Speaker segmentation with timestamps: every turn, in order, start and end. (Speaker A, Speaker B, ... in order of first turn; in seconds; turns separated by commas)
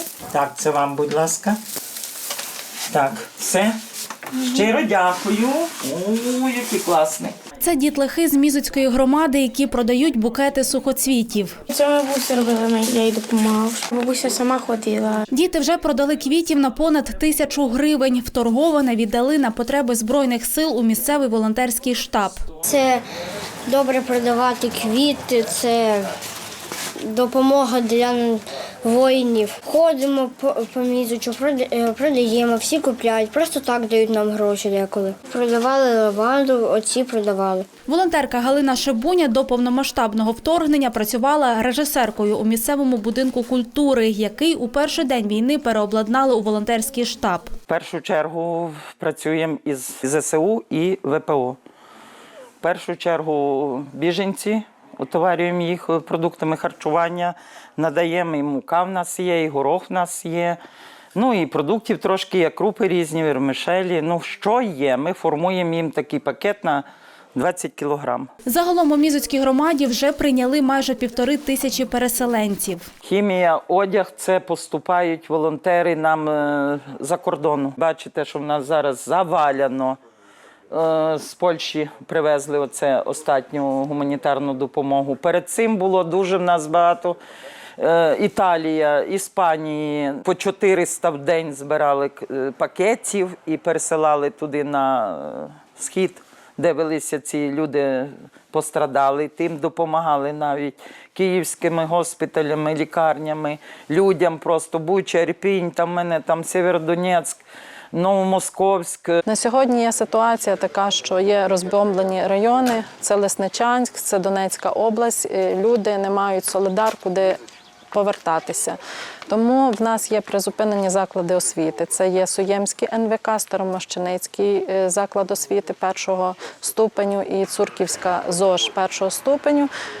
Speaker A: 0.3-1.6, Speaker A: 2.9-3.8, Speaker A: 4.3-7.4, Speaker B: 7.6-11.6, Speaker C: 11.7-15.2, Speaker B: 15.3-22.4, Speaker D: 22.6-23.0, Speaker D: 23.7-26.1, Speaker D: 27.0-37.6, Speaker B: 37.9-47.5, Speaker A: 47.7-51.6, Speaker A: 52.6-60.6, Speaker A: 61.1-68.3, Speaker B: 68.5-72.9, Speaker A: 73.0-80.0, Speaker A: 80.7-87.2, Speaker A: 87.8-107.4, Speaker A: 107.9-109.2, Speaker E: 109.2-117.4, Speaker E: 117.9-129.7